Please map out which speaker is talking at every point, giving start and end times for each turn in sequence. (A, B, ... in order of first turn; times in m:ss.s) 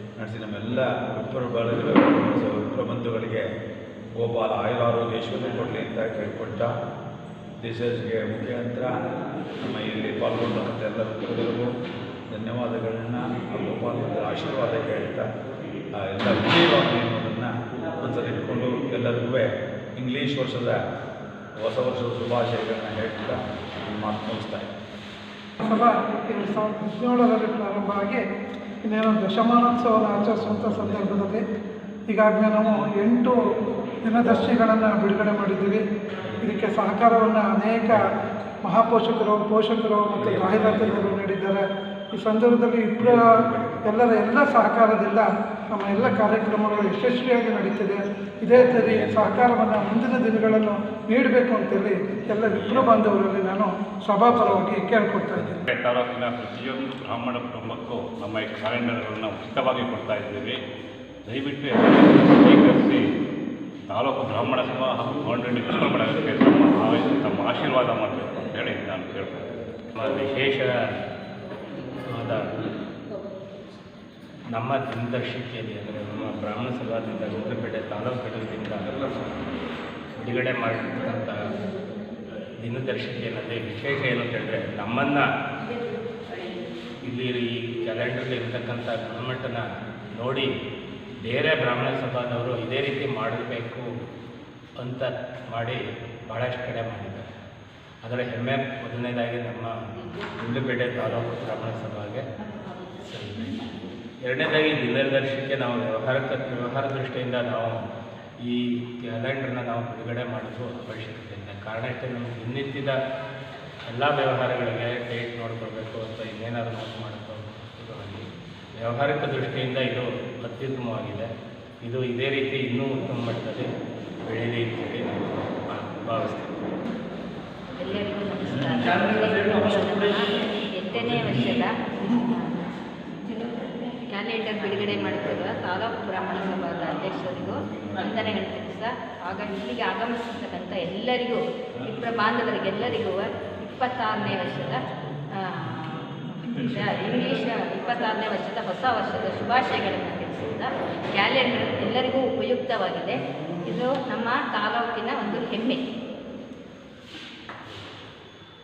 0:00.2-0:03.4 A
0:04.2-0:06.7 A
0:07.6-0:08.9 A
0:09.6-0:11.7 A
0:12.3-0:15.3 A
0:15.9-0:20.8 A
0:21.6-0:24.7 A
0:25.6-0:28.2 B
0:28.8-0:31.4 B
0:30.4-0:31.1 A
0:32.1-0:33.4 B
0:34.0-0:35.8 B
0:34.2-0:34.5 A
0:36.4-0:38.0 B
0:38.6-0:43.2 B
0:40.2-0:41.1 A
0:43.0-0:43.9 A
0:43.8-0:55.6 B
0:48.5-0:49.3 A
0:52.5-0:53.0 C
0:54.3-0:54.6 A
0:55.7-1:00.6 C
1:01.2-1:03.0 C
1:03.9-1:09.4 C
1:10.0-1:10.7 D
1:12.0-1:12.4 D
1:14.5-1:18.9 D
1:20.2-1:21.5 D
1:22.6-1:25.3 D
1:27.0-1:30.5 D
1:31.2-1:33.8 D
1:34.8-1:37.2 D
1:38.0-1:39.8 D
1:40.4-1:42.2 D
1:43.0-1:43.6 D
1:44.2-1:47.9 D
1:48.4-1:53.0 D
1:53.9-1:58.2 D
1:58.8-2:01.3 D
2:01.8-2:03.7 D
2:04.2-2:06.6 D
2:07.7-2:12.6 E
2:14.0-2:35.8 E